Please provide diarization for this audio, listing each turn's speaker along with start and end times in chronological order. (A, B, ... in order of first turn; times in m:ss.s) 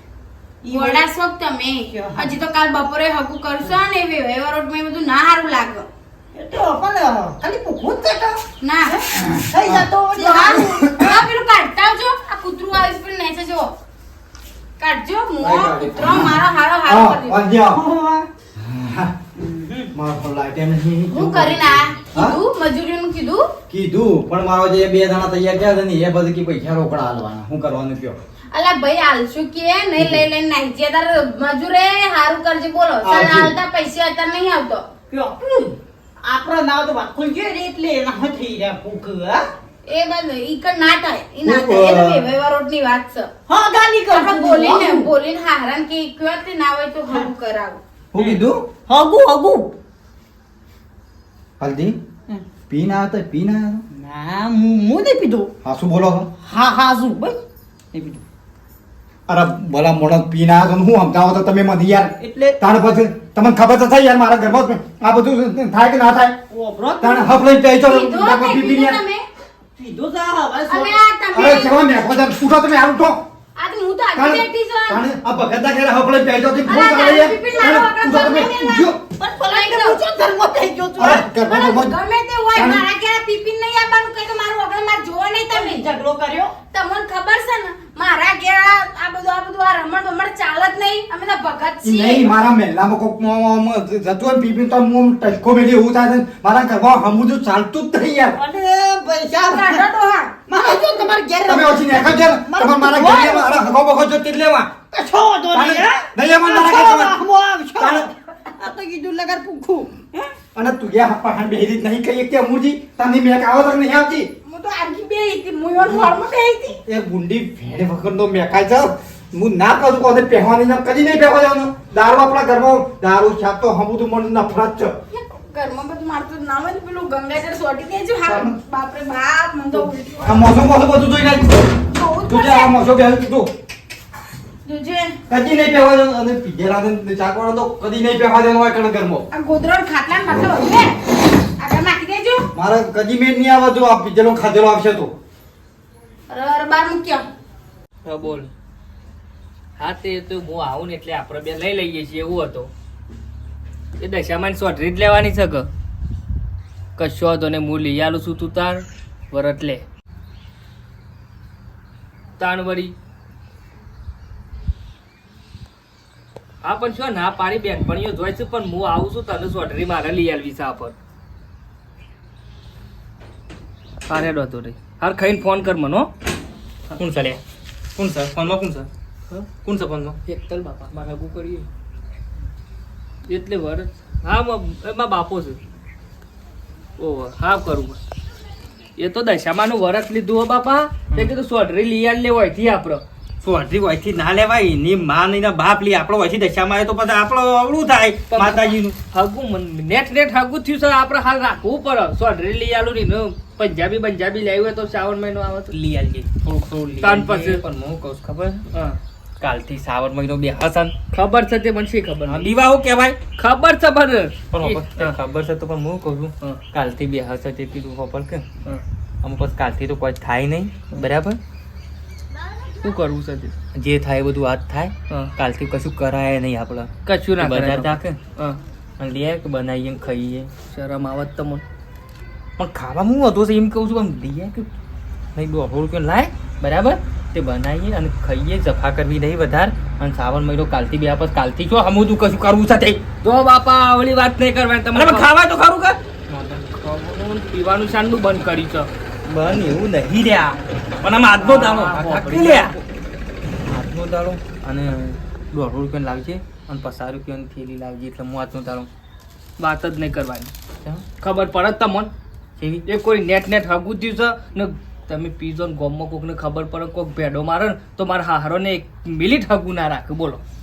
0:00.6-0:01.0 A
0:00.7-0:05.9 B
0:01.9-0:02.3 A
0:06.3-0:11.2 A
0:08.6-0:09.0 B
0:10.2-0:13.7 B
0:14.8-0:17.4 B
0:15.4-0:17.8 C
0:17.8-0:18.2 A
0:18.6-0:19.1 C
0:19.4-0:19.9 A
0:19.9-0:22.4 C
0:21.1-0:23.5 B
0:23.7-0:28.2 C
0:28.5-0:34.8 B
0:30.0-0:30.2 C
0:33.0-0:33.5 C
0:35.1-0:39.4 A
0:39.8-0:43.3 B
0:41.4-0:42.2 C
0:43.5-0:45.1 A
0:44.1-0:47.8 B
0:48.1-0:48.6 C
0:48.1-0:49.7 A
0:51.6-0:52.0 C
0:52.7-0:53.8 C
0:53.9-0:55.5 A
0:55.6-0:56.3 C
0:56.4-0:57.4 A
0:57.9-0:58.2 A
0:59.3-1:06.4 C
1:02.2-1:02.6 A
1:06.5-1:07.3 A
1:07.0-1:09.0 C
1:07.8-1:09.2 B
1:09.8-1:11.0 A
1:10.7-1:11.8 B
1:11.3-1:13.2 C
1:13.6-1:15.0 B
1:14.2-1:19.0 C
1:16.6-1:20.0 B
1:19.1-1:21.2 A
1:21.0-1:22.0 C
1:21.3-1:25.8 B
1:22.5-1:22.8 C
1:25.5-1:26.5 A
1:26.7-1:32.3 B
1:31.8-1:38.4 C
1:38.4-1:39.8 A
1:39.5-1:40.3 B
1:40.5-1:43.6 A
1:41.4-1:44.8 C
1:44.9-1:50.3 A
1:45.5-1:47.2 C
1:47.8-1:48.1 C
1:50.5-1:54.3 C
1:54.4-1:56.8 B
1:56.8-2:04.9 C
2:05.1-2:10.5 B
2:08.2-2:08.6 C
2:10.2-2:11.6 C
2:11.9-2:12.7 B
2:12.3-2:13.5 C
2:14.6-2:15.2 B
2:15.3-2:19.3 C
2:19.3-2:21.0 B
2:21.5-2:22.5 B
2:22.5-2:25.1 C
2:26.3-2:27.3 B
2:28.0-2:28.5 D
2:29.8-2:32.7 D
2:34.0-2:35.7 D
2:37.0-2:39.8 D
2:42.4-2:42.9 D
2:46.6-2:50.9 D
2:54.1-2:56.1 D
2:57.0-2:57.4 E
2:58.0-2:58.9 E
2:59.6-3:00.2 E
3:00.2-3:01.7 D
3:03.3-3:05.6 D
3:07.0-3:08.0 D
3:09.0-3:13.0 D
3:13.4-3:19.0 E
3:18.3-3:25.7 D
3:25.7-3:28.6 E
3:27.0-3:27.6 D
3:28.7-3:29.0 D
3:29.4-3:30.9 E
3:31.1-3:32.5 D
3:32.2-3:33.2 E
3:33.4-3:35.2 D
3:34.5-3:38.4 E
3:39.2-3:41.4 E
3:42.8-3:43.5 D
3:43.7-3:48.2 E
3:47.0-3:48.6 D
3:49.0-3:50.5 E
3:50.7-3:51.6 D
3:52.6-3:54.7 E
3:55.4-4:03.0 E
4:03.2-4:05.3 D
4:04.9-4:06.6 E
4:06.7-4:08.9 D
4:09.2-4:12.8 E
4:11.3-4:12.8 D
4:13.6-4:18.9 E
4:19.6-4:20.5 D
4:21.2-4:22.1 D
4:22.8-4:30.4 D